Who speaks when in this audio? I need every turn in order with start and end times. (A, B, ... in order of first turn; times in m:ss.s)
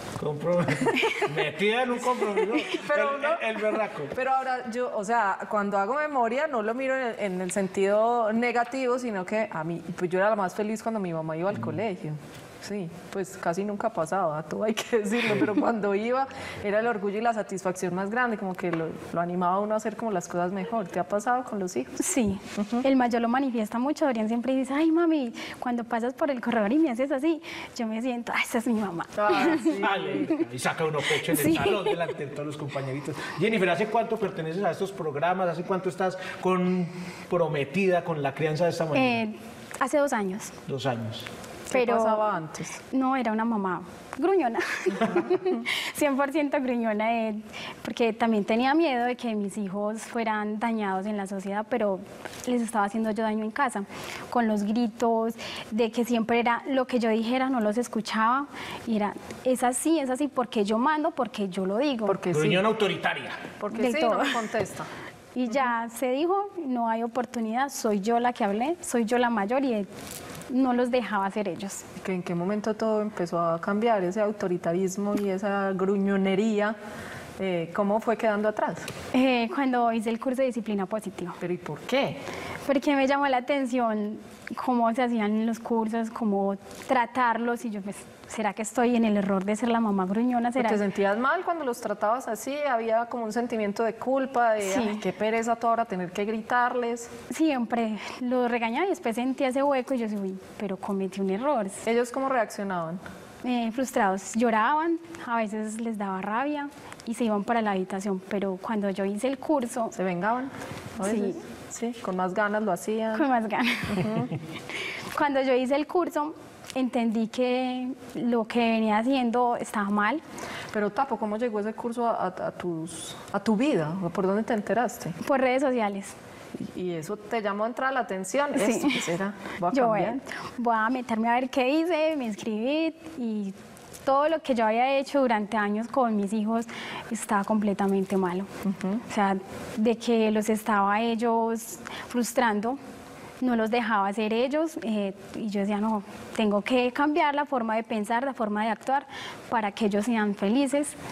0:00.2-0:04.1 A
0:02.8-0:03.5 B
0:04.1-0:21.9 B
0:22.0-0:29.8 C
0:22.6-0:22.8 B
0:29.2-0:39.2 A
0:29.5-0:30.2 B
0:31.3-0:31.9 C
0:38.9-0:40.5 C
0:40.7-0:41.3 A
0:41.7-0:42.8 B
0:41.7-0:42.3 C
0:42.9-1:02.2 C
1:02.1-1:02.6 B
1:02.3-1:03.4 A
1:03.6-1:04.9 B
1:03.7-1:04.4 C
1:05.3-1:09.9 C
1:10.5-1:11.8 C
1:12.0-1:16.8 B
1:17.4-1:18.9 B
1:19.1-1:21.4 C
1:21.4-1:22.2 B
1:22.6-1:30.8 C
1:30.6-1:37.1 B
1:34.6-1:35.0 C
1:37.3-1:41.8 C
1:41.8-1:43.0 B
1:43.4-1:49.9 C
1:49.9-1:53.2 B
1:51.0-1:51.4 C
1:53.1-1:54.1 C
1:53.9-1:54.3 B
1:55.1-2:00.2 C
2:00.7-2:05.1 B
2:05.2-2:06.1 C
2:06.6-2:10.2 B
2:08.6-2:09.0 C
2:09.7-2:13.5 C
2:14.0-2:18.5 C
2:18.6-2:19.0 B
2:19.1-2:22.8 C
2:23.4-2:31.0 C